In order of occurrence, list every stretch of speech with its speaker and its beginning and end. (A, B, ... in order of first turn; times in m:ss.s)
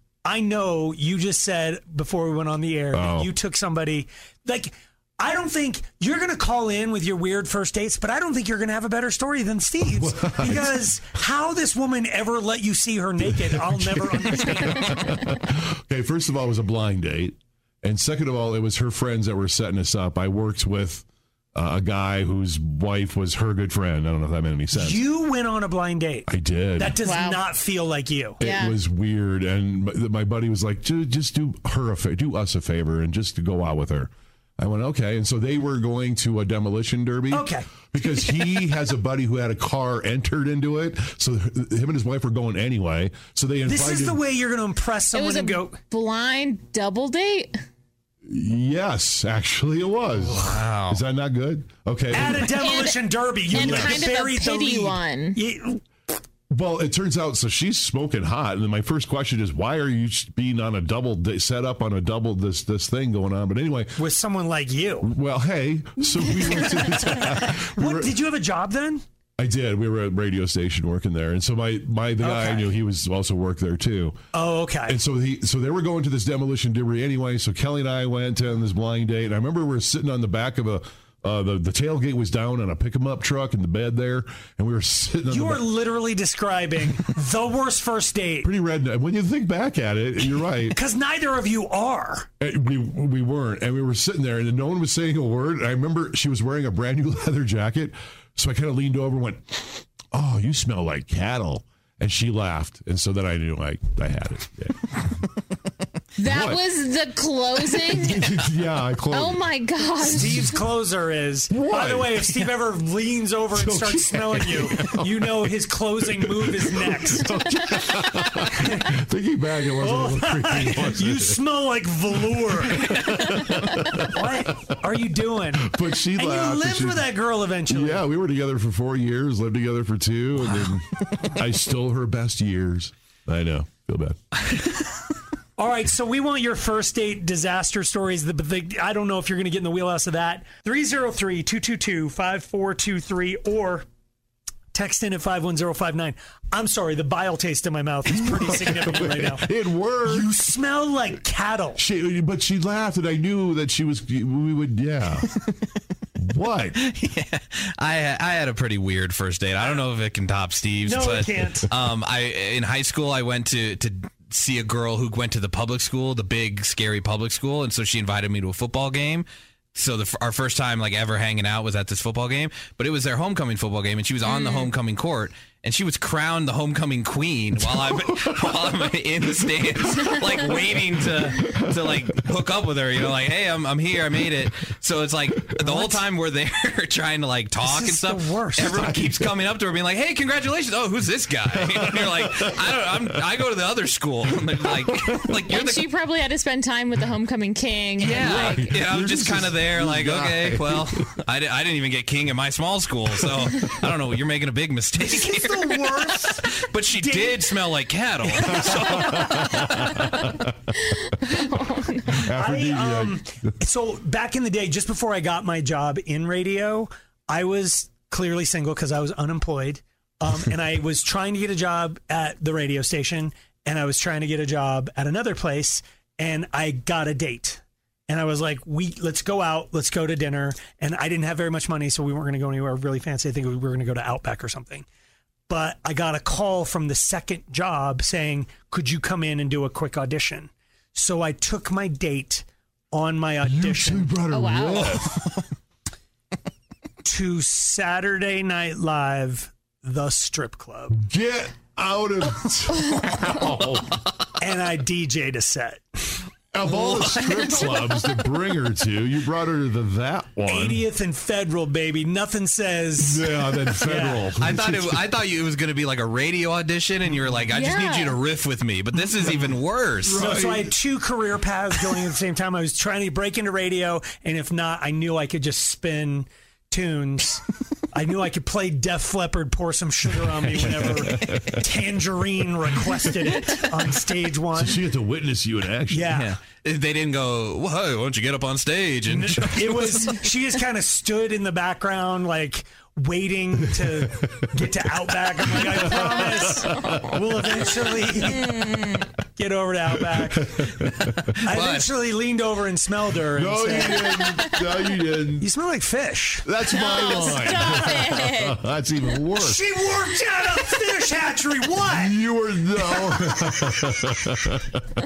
0:00.2-0:15.0 A
0:02.9-0:03.3 B
0:09.8-0:10.9 B
0:13.2-0:25.0 B
0:24.7-0:28.4 A
0:26.3-0:27.0 B
0:27.0-0:27.4 C
0:28.4-0:44.2 B
0:28.4-0:28.7 C
0:37.3-0:37.6 A
0:43.7-0:45.8 A
0:45.1-0:47.5 C
0:48.3-0:52.6 B
0:50.4-0:51.0 D
0:52.1-0:55.8 A
0:52.6-0:55.4 C
0:53.6-0:54.0 B
0:56.5-1:04.0 B
1:04.0-1:05.1 A
1:05.0-1:08.1 B
1:06.6-1:07.2 A
1:07.8-1:09.0 A
1:09.4-1:14.2 B
1:12.2-1:12.7 A
1:14.3-1:15.0 A
1:14.9-1:25.6 B
1:25.3-1:28.5 A
1:28.4-1:30.8 B
1:30.7-1:32.3 A
1:32.4-1:44.9 B
1:46.2-1:48.3 C
1:46.2-1:46.6 B
1:47.8-1:49.4 B
1:49.1-1:50.5 C
1:50.0-1:57.3 A
1:50.2-1:50.5 B
1:51.5-1:52.5 B
1:53.5-1:55.3 B
1:56.0-2:01.4 B
1:58.6-1:58.9 A
1:59.8-2:02.8 A
2:02.6-2:04.7 B
2:04.1-2:08.0 A
2:05.6-2:07.1 B
2:07.7-2:14.2 B
2:15.6-2:23.8 A
2:24.7-2:29.4 A
2:28.1-2:30.3 B
2:30.0-2:31.8 A
2:31.8-2:35.3 B
2:36.2-2:36.8 B
2:36.8-3:15.8 D
2:40.9-2:41.7 A
2:54.2-2:54.7 C
2:57.6-2:58.4 B
3:00.8-3:02.2 B
3:05.6-3:05.9 A
3:07.6-3:09.1 A
3:08.6-3:09.2 B
3:11.5-3:12.5 B
3:14.6-3:15.2 B
3:15.5-3:18.6 C
3:18.0-3:29.5 D
3:18.1-3:21.0 B
3:25.0-3:27.4 A
3:28.3-3:29.3 A
3:28.6-3:30.3 B
3:31.3-3:32.1 C
3:32.2-3:33.2 B
3:32.4-3:54.8 A
3:55.5-4:04.1 A
4:03.4-4:05.2 B
4:04.3-4:05.0 C
4:07.0-4:11.0 A
4:10.9-4:14.0 B
4:14.4-4:16.2 A
4:16.5-4:20.8 B
4:16.7-4:17.3 D
4:20.5-4:23.2 A
4:23.0-4:25.0 B
4:23.8-4:24.3 A
4:24.4-4:30.3 D
4:27.5-4:28.2 C
4:30.0-4:30.7 B
4:30.2-4:37.4 A
4:37.9-4:44.8 A
4:40.5-4:41.6 B
4:44.5-4:46.2 B
4:45.9-4:46.3 A
4:46.1-4:50.1 D
4:49.1-5:00.7 A
4:53.8-4:54.4 B
4:55.5-4:57.6 B
4:56.2-4:56.7 C
4:58.4-4:59.0 C
5:00.0-5:01.1 B
5:01.4-5:04.2 A
5:01.5-5:01.9 D
5:03.3-5:05.5 B
5:04.0-5:04.5 C
5:05.4-5:06.5 A
5:06.4-5:09.6 B
5:06.7-5:08.6 C
5:09.4-5:12.1 A
5:11.8-5:14.8 B